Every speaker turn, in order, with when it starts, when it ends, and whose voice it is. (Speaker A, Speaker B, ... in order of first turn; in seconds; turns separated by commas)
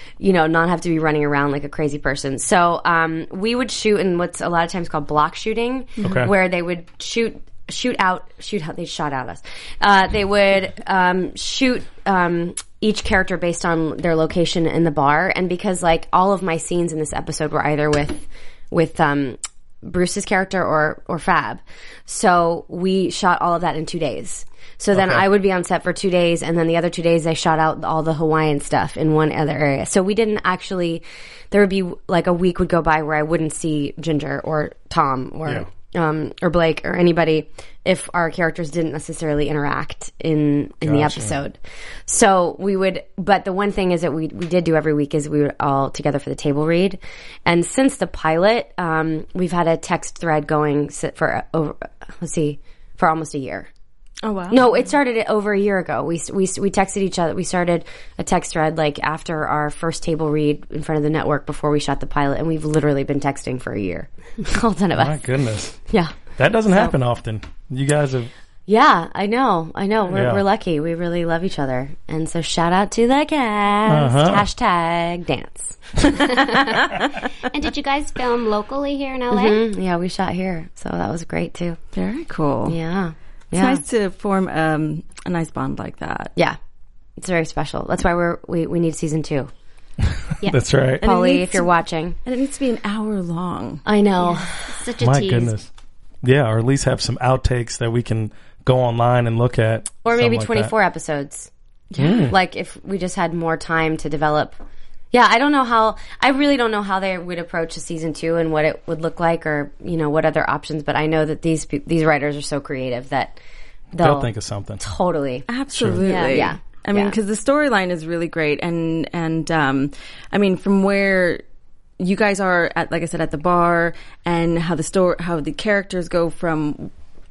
Speaker A: 0.2-53.7, Speaker B: 6.0-6.3, Speaker B: 24.9-25.2, Speaker B: 40.8-41.4, Speaker C: 54.2-54.7, Speaker A: 54.5-65.2, Speaker B: 65.0-65.8, Speaker A: 65.9-66.1, Speaker B: 66.4-68.3, Speaker A: 66.7-67.0, Speaker A: 68.7-76.6, Speaker B: 70.1-70.4, Speaker B: 73.9-74.5, Speaker D: 76.3-76.8, Speaker D: 77.4-79.6, Speaker A: 79.3-81.8, Speaker C: 82.0-82.8, Speaker A: 82.7-83.8, Speaker C: 83.5-86.3, Speaker A: 87.2-89.5, Speaker B: 90.0-91.0, Speaker C: 91.0-91.7, Speaker A: 91.0-92.2, Speaker C: 92.2-93.8, Speaker A: 93.9-94.7, Speaker D: 94.6-95.5, Speaker B: 95.0-95.7, Speaker B: 96.2-100.7, Speaker A: 100.0-101.5, Speaker C: 101.9-102.3, Speaker B: 102.0-102.3, Speaker A: 102.2-104.6, Speaker A: 105.1-113.4, Speaker A: 113.9-115.5, Speaker B: 114.0-114.8, Speaker C: 115.5-121.4, Speaker B: 115.7-116.3, Speaker A: 116.0-117.2, Speaker C: 122.0-126.9